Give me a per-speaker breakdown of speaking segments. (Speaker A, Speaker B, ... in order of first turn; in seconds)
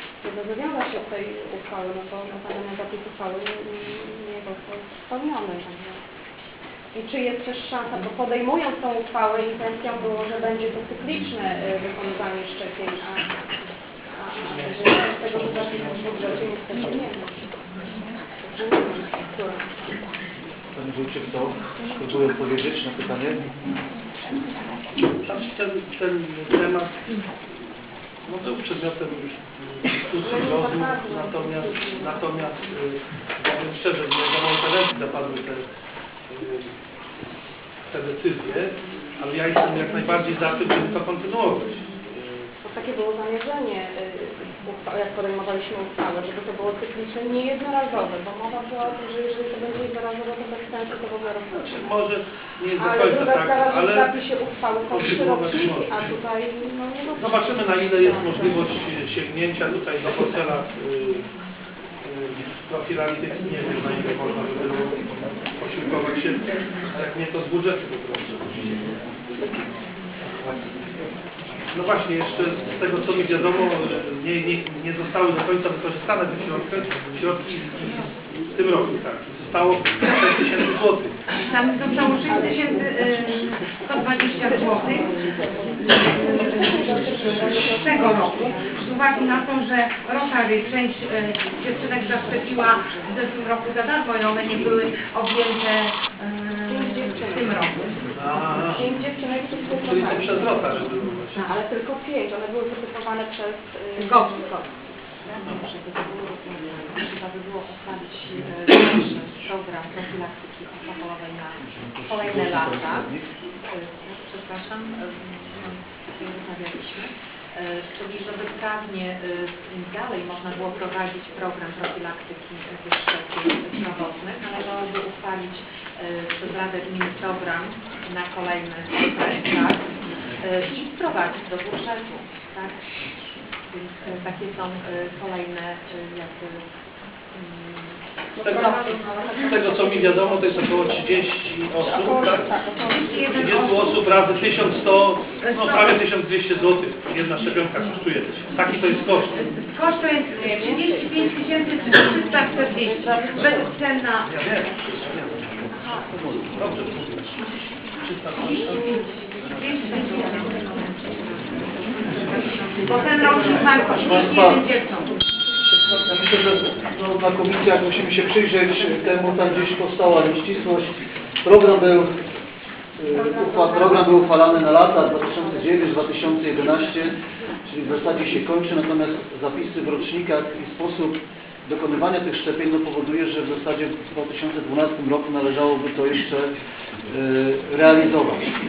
Speaker A: 0.2-6.0, 6.9-13.3, 14.2-17.4, 18.4-19.8, 30.2-32.4, 42.6-51.9, 52.8-58.9, 84.7-88.8, 96.7-97.7, 98.3-104.6, 138.3-143.3, 150.4-151.3, 152.5-153.7, 155.8-156.0, 173.1-175.3
Speaker B: 14.4-16.6, 25.2-27.2, 28.2-35.6, 36.3-36.7, 37.9-42.5, 51.5-54.2, 54.9-56.1, 57.2-61.3, 62.0-65.0, 65.6-68.8, 71.7-81.2, 98.2-98.9, 99.8-101.5, 138.4-138.9, 139.4-142.5, 143.3-149.4, 154.2-155.4, 156.5-157.4, 158.0-158.9
Speaker C: 20.7-23.4, 111.6-113.3, 163.8-164.7, 165.9-172.1, 173.0-186.5, 187.1-188.5
Speaker D: 81.3-85.3, 85.9-98.0, 104.0-104.6, 142.8-144.1, 145.4-146.0, 149.3-154.4, 158.4-160.9, 162.0-165.1
Speaker E: 105.4-136.7, 137.3-139.4, 159.9-160.5, 162.2-163.9